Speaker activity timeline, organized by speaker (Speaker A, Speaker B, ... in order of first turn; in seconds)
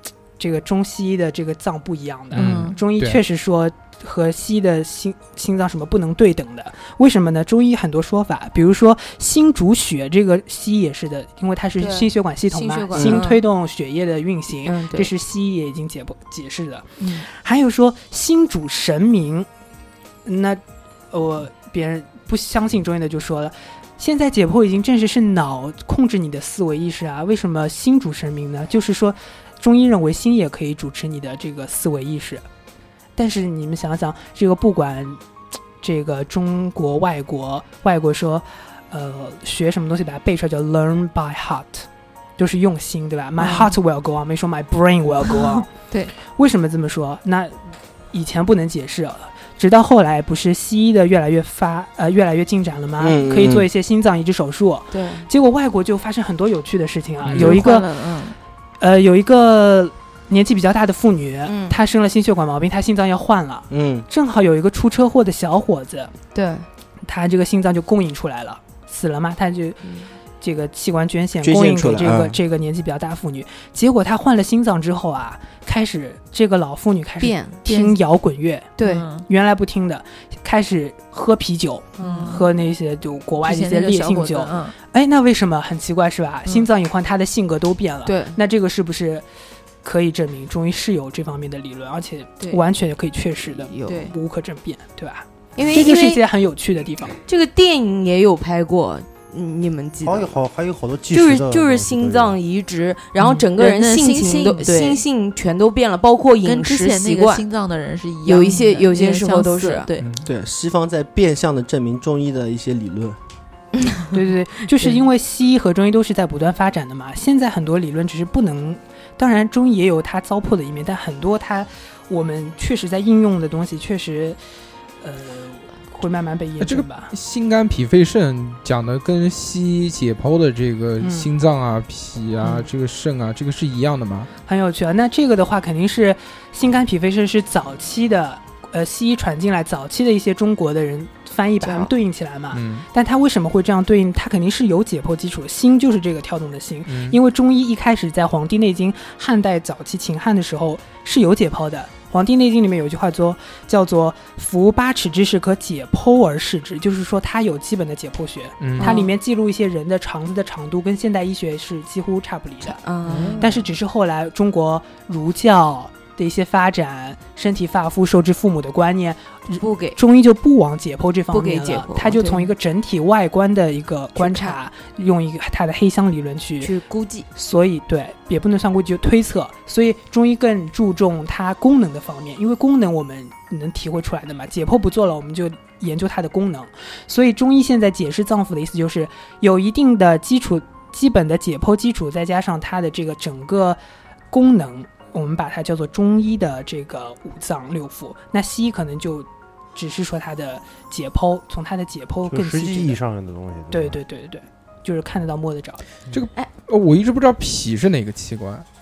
Speaker A: 0.4-19.5, 20.2-32.5, 33.2-35.2, 35.8-41.9, 42.4-47.6, 48.1-57.9, 58.8-66.1, 67.0-69.8, 70.4-89.3, 89.8-97.2, 103.2-103.5, 114.1-124.4, 125.0-127.1, 131.0-131.3, 134.4-162.8, 163.3-176.7, 177.3-193.8, 194.3-203.0, 203.7-205.8
Speaker B: 2.3-3.2, 57.2-57.6, 110.0-110.3, 126.6-134.3, 142.5-142.9, 146.9-147.2, 158.6-159.0, 206.1-208.7
Speaker C: 2.4-2.8, 43.4-43.7, 57.3-58.4, 77.7-78.0, 78.8-79.2, 82.0-82.4, 83.4-84.8, 93.8-94.1, 103.6-105.0, 106.4-110.1
Speaker D: 11.8-13.4, 14.7-15.1, 54.9-55.3, 61.5-61.8, 66.3-66.7, 77.2-77.6, 78.8-79.1, 82.0-82.3, 88.1-88.4, 93.5-94.1, 95.6-96.2, 97.2-100.4, 101.1-107.4, 108.2-109.9, 113.7-114.1, 141.6-141.9, 158.8-159.1, 162.7-163.6, 169.6-170.0, 171.3-172.5, 174.2-174.6, 176.6-177.3
Speaker E: 53.0-53.7, 63.7-64.1, 71.4-72.4, 110.2-113.2
Speaker F: 100.0-102.4, 202.3-204.0